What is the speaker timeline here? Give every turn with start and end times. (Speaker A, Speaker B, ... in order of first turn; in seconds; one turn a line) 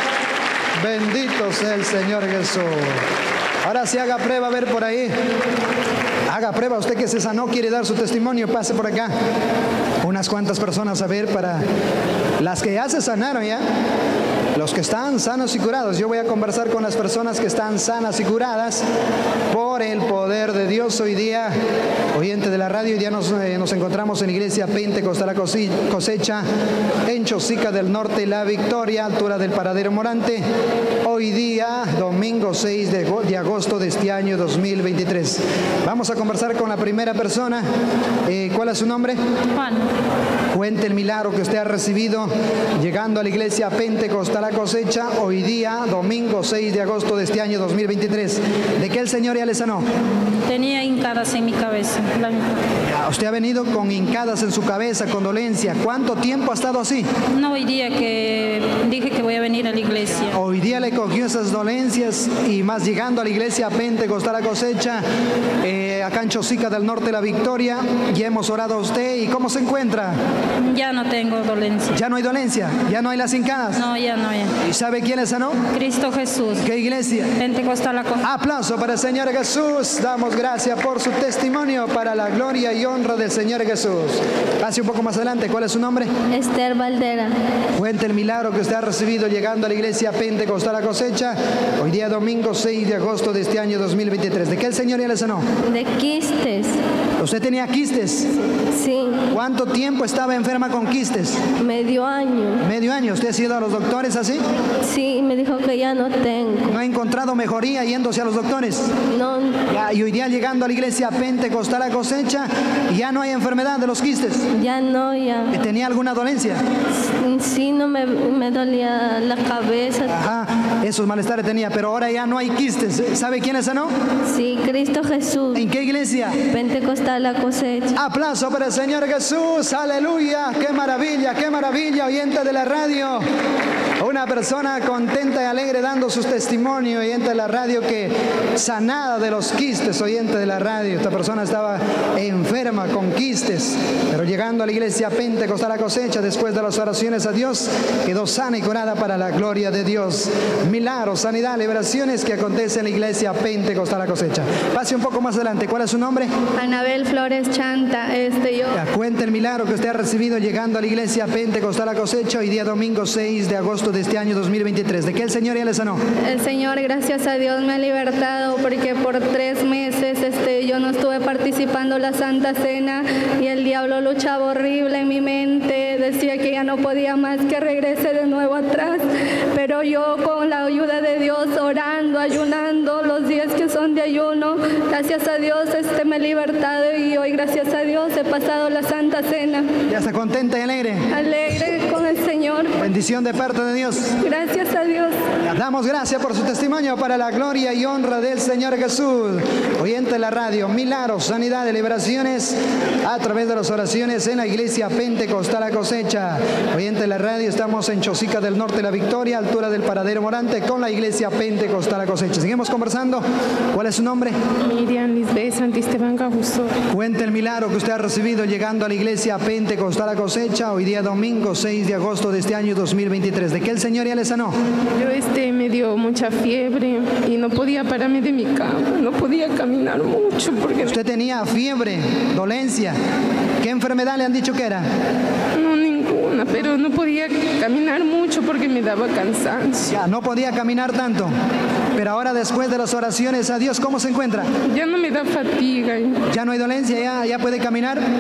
Speaker A: 0.8-3.0
Speaker A: 3.6-5.1
Speaker A: 6.3-9.1
Speaker A: 10.0-11.7
Speaker A: 12.4-13.6
Speaker A: 14.6-18.9
Speaker A: 19.5-21.5
Speaker A: 22.1-26.4
Speaker A: 27.1-30.4
Speaker A: 31.0-37.6
Speaker A: 38.3-39.2
Speaker A: 40.5-49.9
Speaker B: 50.5-51.8
Speaker A: 52.9-57.1
Speaker B: 57.4-60.2
Speaker A: 60.3-65.0
Speaker A: 65.6-70.2
Speaker B: 70.7-71.9
Speaker A: 71.9-73.8
Speaker B: 73.8-74.5
Speaker A: 74.6-75.6
Speaker B: 75.7-76.6
Speaker A: 76.6-77.3
Speaker B: 77.4-78.2
Speaker A: 78.2-86.1
Speaker C: 86.3-87.3
Speaker A: 87.8-95.4
Speaker C: 95.7-96.8
Speaker A: 97.2-98.3
Speaker C: 98.7-99.2
Speaker A: 99.3-101.4
Speaker C: 101.6-102.6
Speaker A: 102.6-104.4
Speaker C: 104.8-106.7
Speaker A: 106.7-108.9
Speaker C: 109.1-109.6
Speaker A: 109.7-114.4
Speaker C: 114.5-115.5
Speaker A: 115.5-116.6
Speaker C: 117.2-120.1
Speaker A: 120.2-123.9
Speaker C: 124.3-125.7
Speaker A: 125.5-126.3
Speaker C: 126.5-128.0
Speaker A: 128.0-133.2
Speaker A: 134.0-156.3
Speaker D: 156.6-158.8
Speaker A: 158.7-166.0
Speaker D: 166.3-179.0
Speaker D: 179.6-189.7
Speaker A: 189.9-191.0
Speaker D: 191.1-192.7
Speaker A: 192.8-194.1
Speaker D: 194.2-195.1
Speaker A: 195.5-214.4
Speaker E: 214.6-216.7
Speaker A: 216.9-224.6
Speaker E: 225.0-231.0
Speaker A: 230.9-233.0
Speaker A: 233.6-234.9
Speaker E: 235.6-239.9
Speaker A: 239.9-241.3
Speaker A: 241.9-244.5
Speaker E: 244.7-246.2
Speaker A: 246.3-248.0